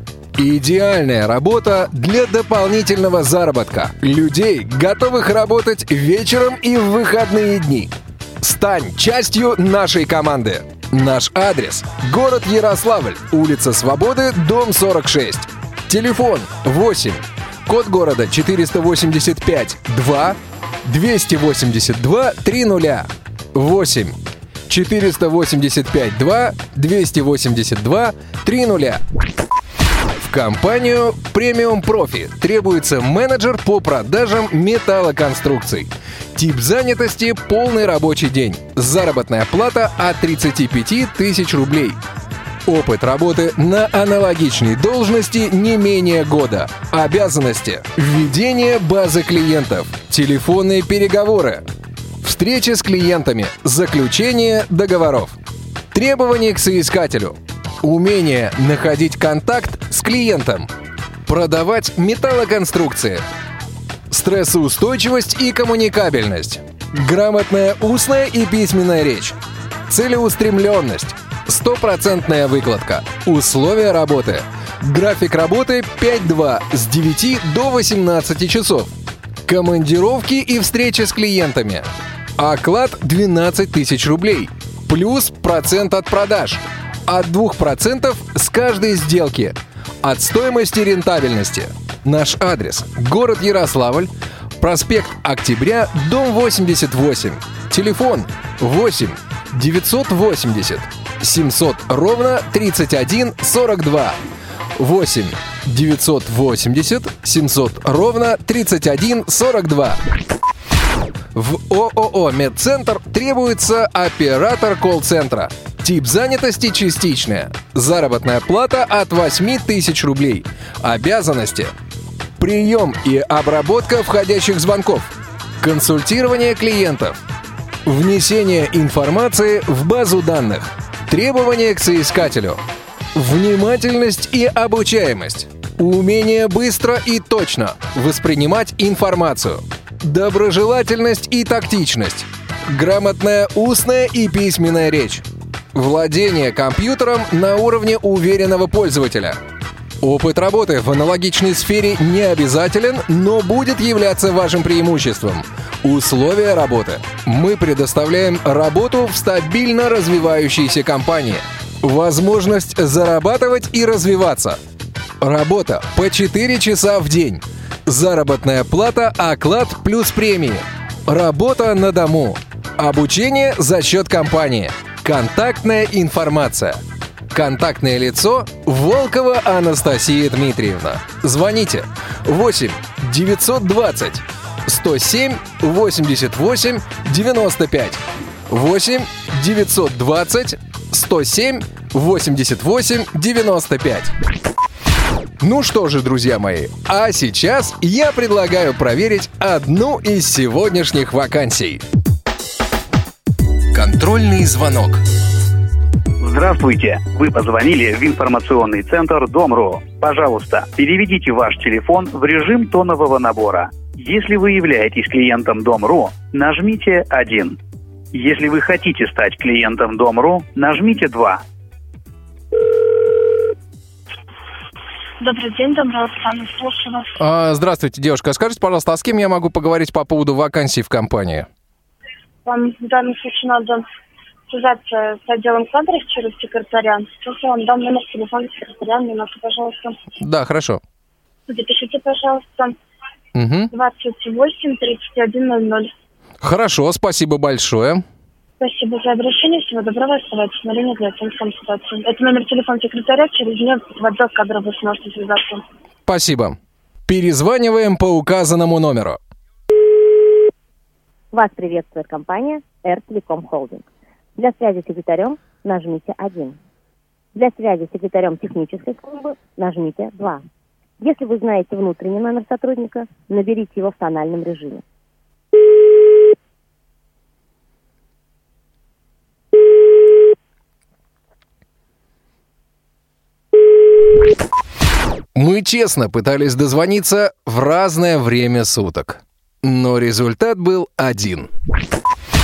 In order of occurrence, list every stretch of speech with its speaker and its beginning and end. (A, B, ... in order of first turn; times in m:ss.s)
0:00.4-0:24.2 A
0:24.7-0:29.0 A
0:30.2-0:42.0 A
0:42.6-0:51.6 A
0:52.2-0:55.4 A
0:55.9-1:00.7 A
1:01.2-1:03.2 A
1:04.1-1:09.4 A
1:09.9-1:18.9 A
1:19.4-1:44.2 A
1:44.8-1:50.0 A
1:51.3-2:01.7 A
2:02.4-2:07.2 A
2:07.8-2:12.6 A
2:13.1-2:29.4 A
2:30.0-2:44.6 A
2:45.2-2:56.8 A
2:57.3-3:14.1 A
3:15.4-3:21.8 A
3:23.7-3:25.0 A
3:26.2-3:37.5 B
3:38.1-3:41.4 B
3:45.2-3:47.1 C
3:47.2-3:51.5 A
3:52.4-3:53.8 C
3:54.5-4:00.0 C
4:00.2-4:00.8 A
4:01.5-4:02.7 C
4:03.3-4:03.7 A
4:03.7-4:05.9 C
4:06.4-4:08.0 A
4:08.6-4:15.6 C
4:16.0-4:19.2 A
4:21.3-4:26.6 D
4:27.3-4:30.4 D
4:31.0-4:34.8 D
4:45.3-4:51.5 A